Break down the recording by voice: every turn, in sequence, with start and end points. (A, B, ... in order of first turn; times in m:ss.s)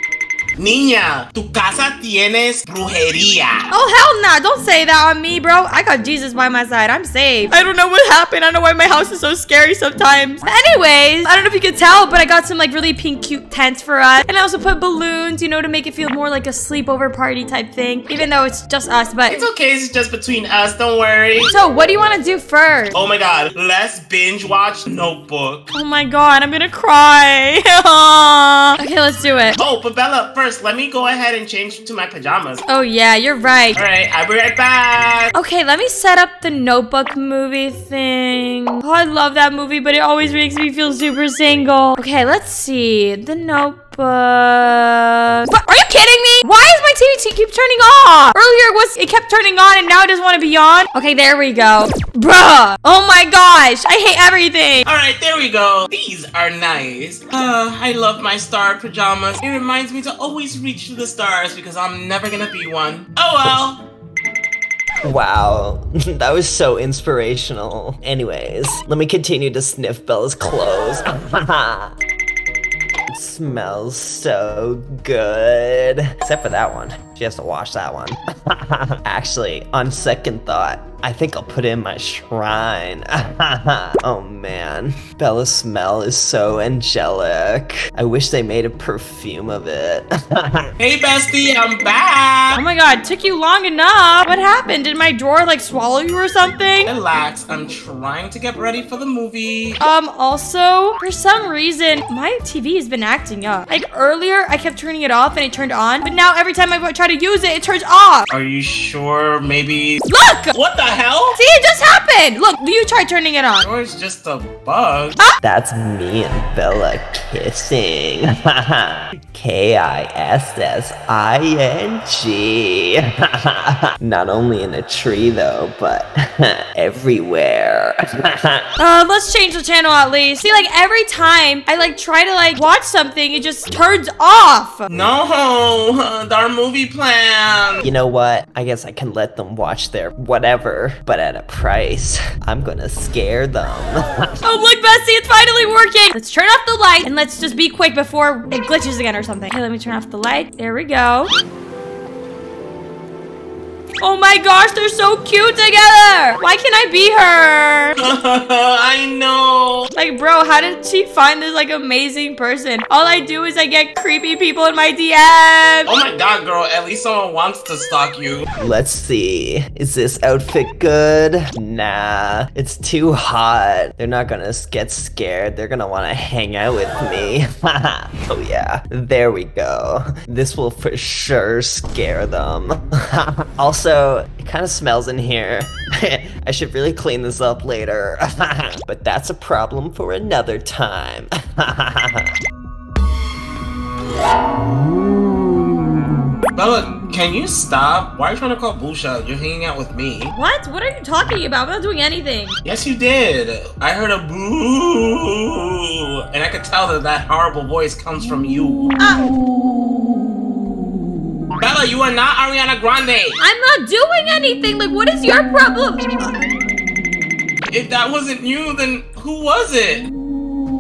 0:00.6-0:03.7 A
0:03.7-0:19.4 B
0:19.3-0:21.5 A
0:21.5-0:22.9 B
0:22.9-0:25.7 A
0:25.7-0:29.6 B
0:29.6-0:32.6 A
0:32.7-0:33.8 B
0:33.8-0:35.3 A
0:35.4-0:54.8 B
0:54.8-1:03.8 A
1:05.0-1:11.9 C
1:13.1-1:30.7 C
1:30.8-1:32.6 A
1:32.6-1:36.9 B
1:36.8-1:39.8 A
1:39.8-1:48.3 B
1:48.3-1:51.4 A
1:50.0-1:50.6 B
1:51.4-1:53.6 B
1:53.6-1:55.2 A
1:55.4-2:08.7 C
2:08.8-2:14.9 B
2:14.9-2:17.9 A
2:17.8-2:24.4 C
2:24.4-2:31.3 B
2:34.0-2:38.0 B
2:38.0-2:39.9 A
2:40.0-2:45.9 B
2:45.9-2:48.5 A
2:48.6-3:12.3 C
3:16.5-3:20.3 A
3:20.3-3:22.6 B
3:22.6-3:28.9 A
3:29.0-3:29.3 B
3:31.6-3:33.4 A
3:33.4-3:36.5 B
3:37.7-3:40.1 A